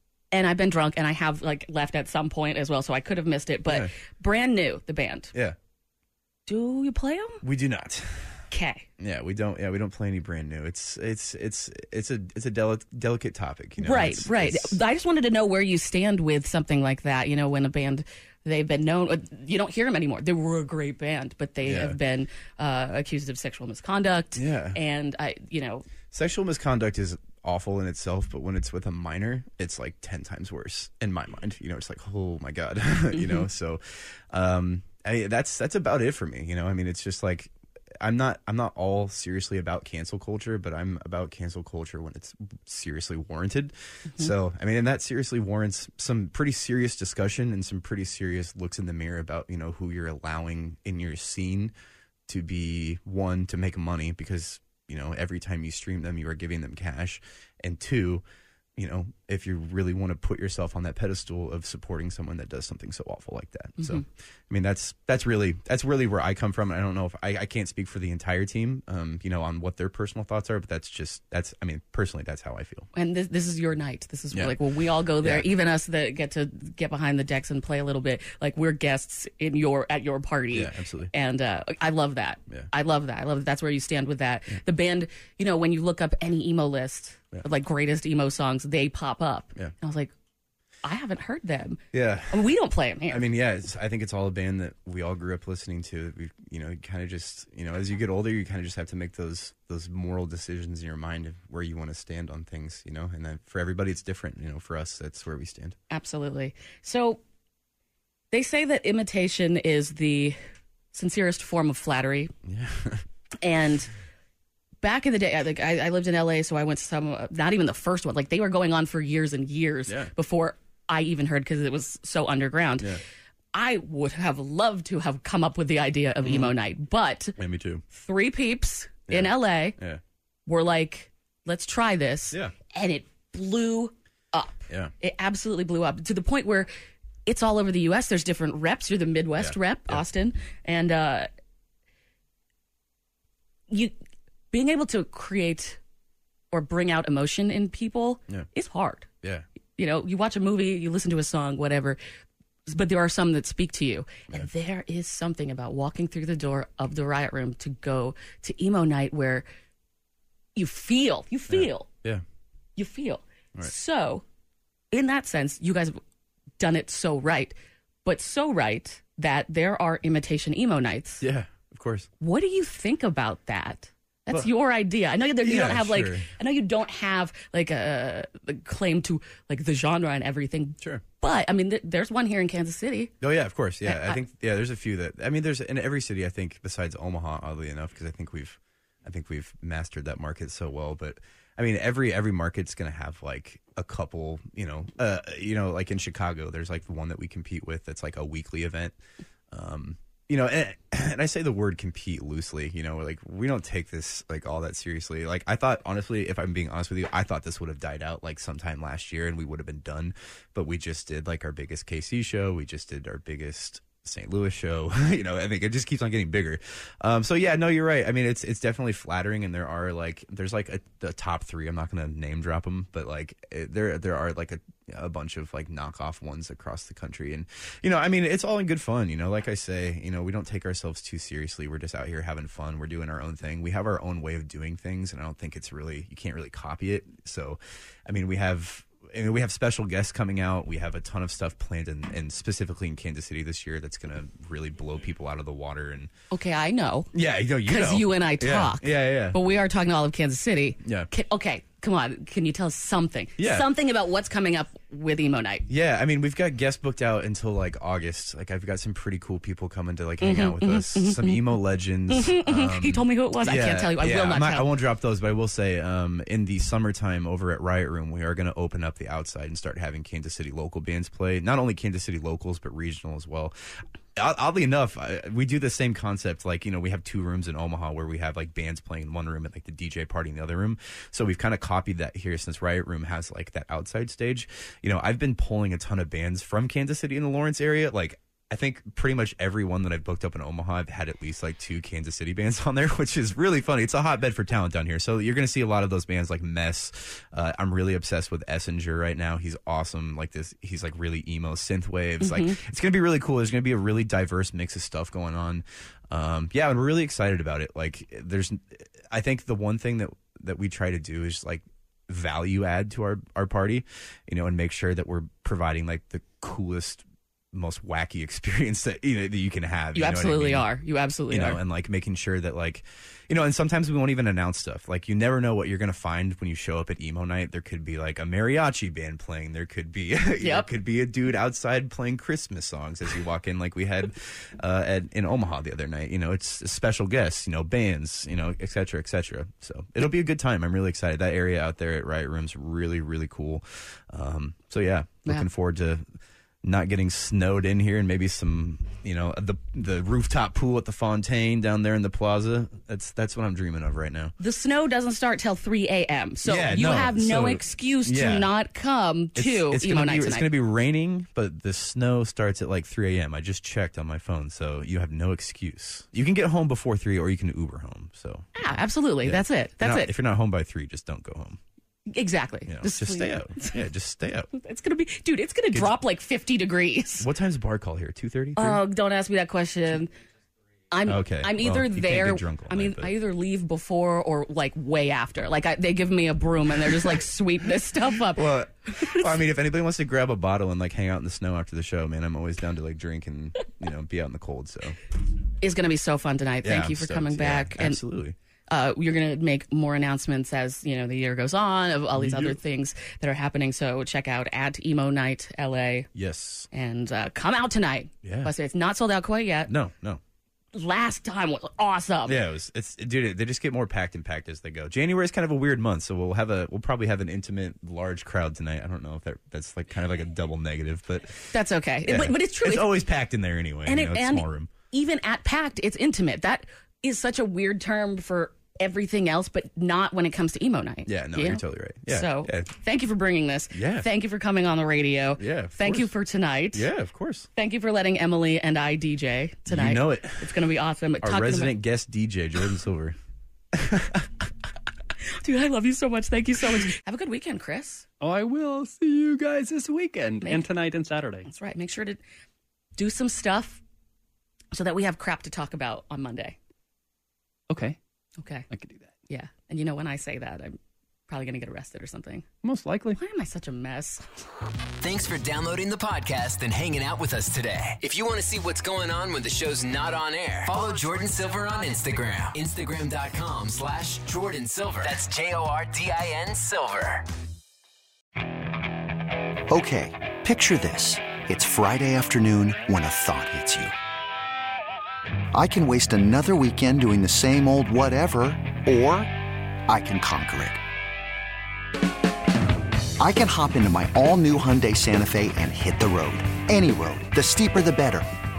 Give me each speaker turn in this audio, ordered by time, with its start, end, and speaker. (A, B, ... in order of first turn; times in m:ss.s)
0:00.3-0:05.3 A
0:03.7-0:03.9 B
0:06.5-0:07.4 A
0:07.4-0:08.3 B
0:08.5-0:08.9 A
0:09.0-0:14.8 B
0:13.8-0:25.9 A
0:21.6-0:22.0 B
0:24.4-0:24.8 B
0:26.1-0:51.7 B
0:33.1-0:33.5 A
0:52.3-0:58.2 B
0:58.8-1:12.9 B
1:03.8-1:04.0 A
1:12.9-1:30.1 A
1:14.3-1:14.6 B
1:15.2-1:15.5 B
1:20.5-1:21.1 B
1:30.8-1:33.3 A
1:31.9-1:32.5 B
1:33.1-1:45.8 B
1:45.9-1:47.2 A
1:48.3-1:50.4 A
1:50.9-1:52.3 A
1:52.4-1:53.0 B
1:53.4-1:53.9 A
1:54.8-2:02.9 A
2:03.5-2:07.4 A
2:06.2-2:06.5 B
2:07.4-2:07.8 B
2:07.9-2:09.8 A
2:09.1-2:10.0 B
2:10.5-2:16.7 A
2:17.3-2:21.3 A
2:19.4-2:20.0 B
2:24.5-2:25.8 A
2:26.5-2:29.1 A
2:29.8-2:32.0 A
2:32.7-2:39.5 A
2:40.6-2:41.9 A
2:41.5-2:42.2 B
2:42.8-2:44.2 A
2:44.9-2:46.0 A
2:46.6-2:51.2 A
2:51.2-2:52.1 B
2:52.2-3:03.1 A
2:55.4-2:56.3 B
3:03.2-3:19.0 B
3:03.8-3:04.2 A
3:19.5-4:06.1 B
4:06.3-4:07.1 A
4:07.1-4:09.4 B
4:07.7-4:15.6 A
4:10.8-4:11.1 B
4:13.4-4:13.7 B
4:15.7-4:33.5 B
4:20.2-4:21.4 A
4:22.1-4:24.7 A
4:34.2-5:20.7 B
5:02.2-5:02.6 A
5:20.0-5:21.6 A
5:21.3-5:46.0 B
5:30.4-5:30.7 A
5:46.6-5:54.4 B
5:54.4-6:00.5 A
5:56.4-5:58.5 B
5:59.4-6:08.5 B
6:08.6-6:10.1 A
6:09.2-6:11.6 B
6:12.1-6:13.8 A
6:12.7-6:14.5 B
6:14.5-6:17.3 A
6:17.2-6:18.8 B
6:18.6-6:20.1 A
6:20.9-6:29.2 A
6:21.0-6:23.1 B
6:28.3-6:35.0 B
6:35.6-6:38.0 A
6:36.6-6:38.4 B
6:38.7-6:46.1 A
6:42.2-6:42.6 B
6:46.1-6:46.7 B
6:46.7-6:49.7 A
6:48.2-6:48.5 B
6:49.7-6:50.2 B
6:50.7-6:52.4 A
6:52.3-7:01.5 B
7:01.5-7:03.0 A
7:02.0-7:04.7 B
7:03.9-7:16.9 A
7:11.1-7:12.7 B
7:13.7-7:14.1 B
7:15.4-7:16.1 B
7:16.7-7:17.5 B
7:17.6-7:21.8 A
7:19.7-7:20.6 B
7:21.2-7:23.2 B
7:23.7-7:24.3 B
7:25.3-7:28.0 A
7:28.2-7:31.5 C
7:31.5-7:32.2 A
7:33.0-7:33.8 A
7:34.7-7:36.6 A
7:37.7-7:38.0 C
7:38.4-7:38.7 A
7:38.7-7:39.1 C
7:39.3-7:40.8 A
7:41.3-7:42.5 A
7:42.6-7:43.2 C
7:43.2-7:44.2 A
7:45.0-7:57.3 D
7:59.7-8:03.9 E
8:05.5-8:09.3 E
8:09.9-8:10.8 E
8:13.2-8:18.3 E